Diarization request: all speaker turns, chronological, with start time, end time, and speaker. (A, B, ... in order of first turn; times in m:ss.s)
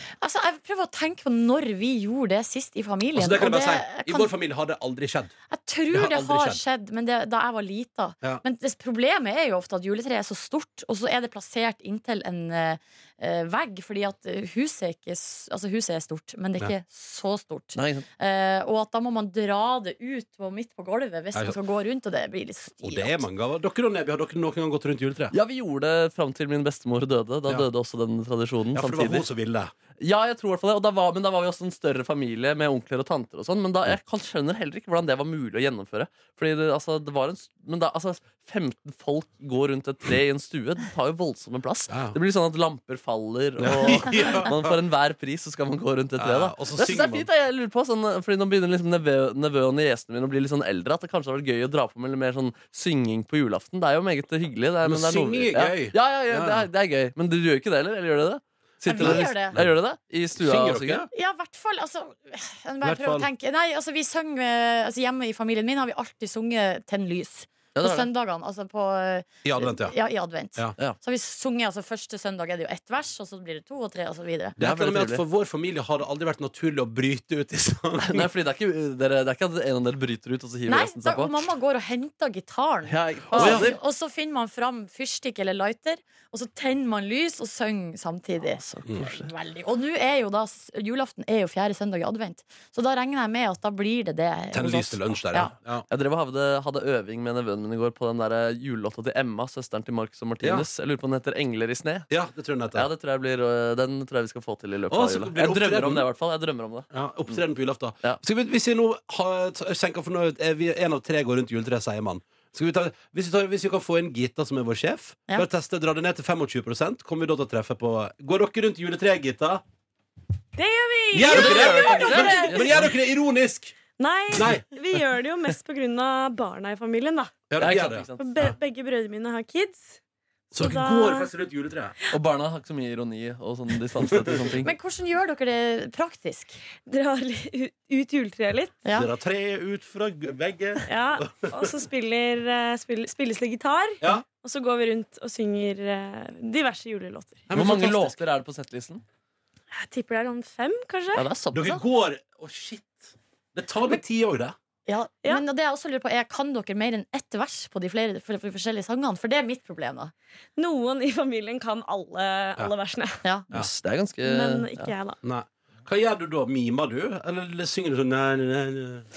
0:00.2-0:04.3 A
0:03.1-0:05.3 B
0:05.5-0:23.2 A
0:05.9-0:06.6 B
0:17.7-0:18.0 C
0:22.8-0:25.3 B
0:25.3-0:29.2 C
0:28.7-0:29.7 B
0:30.0-1:01.0 C
0:41.9-0:42.2 B
0:43.6-0:44.8 B
0:46.2-0:47.3 B
0:54.8-0:56.7 B
0:58.8-0:59.5 A
0:58.9-0:59.7 B
1:00.4-1:01.1 B
1:01.1-1:14.6 A
1:02.8-1:03.3 B
1:07.7-1:08.1 C
1:09.4-1:09.9 B
1:14.6-1:18.3 B
1:14.6-1:15.2 C
1:18.0-1:21.3 C
1:20.7-1:35.5 A
1:22.9-1:23.8 C
1:23.3-1:23.7 B
1:28.6-1:29.3 C
1:34.5-1:35.8 B
1:35.9-1:42.1 C
1:42.1-1:42.9 B
1:42.7-1:46.9 C
1:44.9-1:46.0 B
1:46.9-1:59.6 B
2:00.6-2:02.6 D
2:01.1-2:03.8 B
2:01.3-2:02.9 C
2:04.0-2:07.4 D
2:04.3-2:04.6 B
2:07.5-2:08.6 B
2:07.6-2:08.3 C
2:08.2-2:10.0 D
2:10.5-2:11.9 B
2:10.5-2:11.3 D
2:12.1-2:14.7 C
2:14.0-2:14.6 B
2:14.6-2:16.6 A
2:16.8-2:18.8 D
2:18.8-2:19.1 A
2:18.9-2:21.7 B
2:20.8-2:27.5 D
2:27.5-2:28.2 B
2:27.5-2:29.0 C
2:29.7-2:31.3 D
2:31.2-2:31.8 C
2:31.5-2:34.5 B
2:34.9-2:40.1 A
2:40.6-2:43.2 D
2:43.5-2:44.9 C
2:44.2-2:45.2 D
2:45.2-2:49.0 B